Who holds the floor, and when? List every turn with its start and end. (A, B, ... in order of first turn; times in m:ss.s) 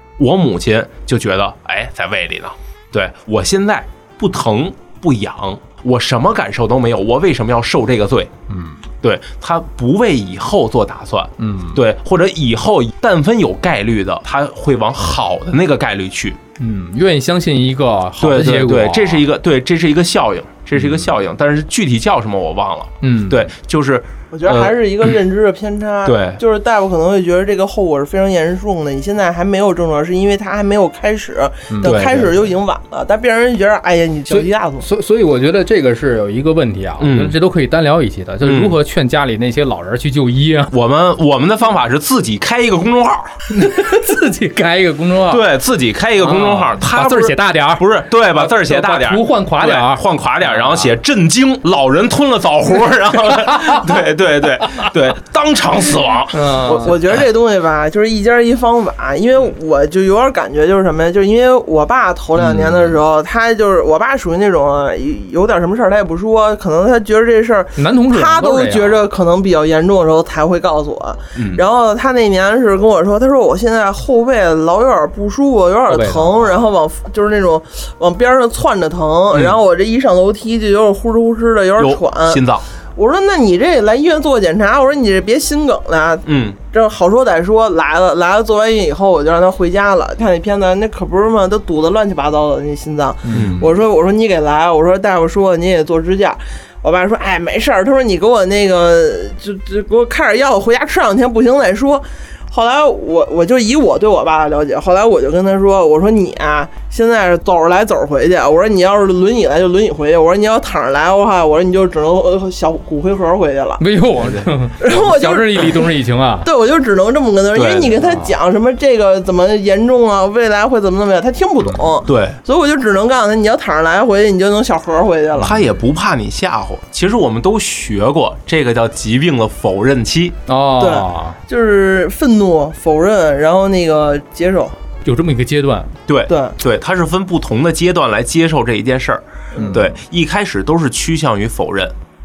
0:00.2-0:08.3 A
0:08.5-0:08.8 B
0:09.0-0:16.4 A
0:11.4-0:11.8 B
0:16.6-0:19.2 B
0:18.2-0:25.1 A
0:23.0-0:23.5 B
0:24.3-0:34.8 C
0:26.0-0:26.4 A
0:31.7-0:32.0 B
0:31.8-0:32.3 A
0:34.3-0:40.7 B
0:37.0-0:37.4 A
0:38.4-0:38.8 A
0:40.7-0:43.3 A
0:43.5-0:45.4 B
0:45.3-0:57.1 A
0:46.2-0:50.9 B
0:56.3-0:56.9 B
0:56.7-1:22.4 C
1:02.4-1:02.7 B
1:07.8-1:09.0 B
1:11.3-1:11.6 A
1:15.9-1:16.5 B
1:19.3-1:19.6 A
1:21.8-1:22.6 A
1:23.0-1:53.8 C
1:26.2-1:26.6 A
1:33.2-1:33.7 B
1:33.3-1:33.6 A
1:53.8-1:56.5 B
1:54.2-1:54.5 A
1:54.8-1:55.9 C
1:56.4-2:05.6 C
1:57.5-1:58.0 A
1:58.0-1:58.3 B
2:02.0-2:02.4 A
2:05.4-2:10.4 A
2:10.5-2:11.4 B
2:10.8-2:14.8 C
2:15.0-2:15.9 B
2:16.1-2:21.9 A
2:16.3-2:16.5 C
2:19.5-2:19.8 C
2:19.6-2:19.9 B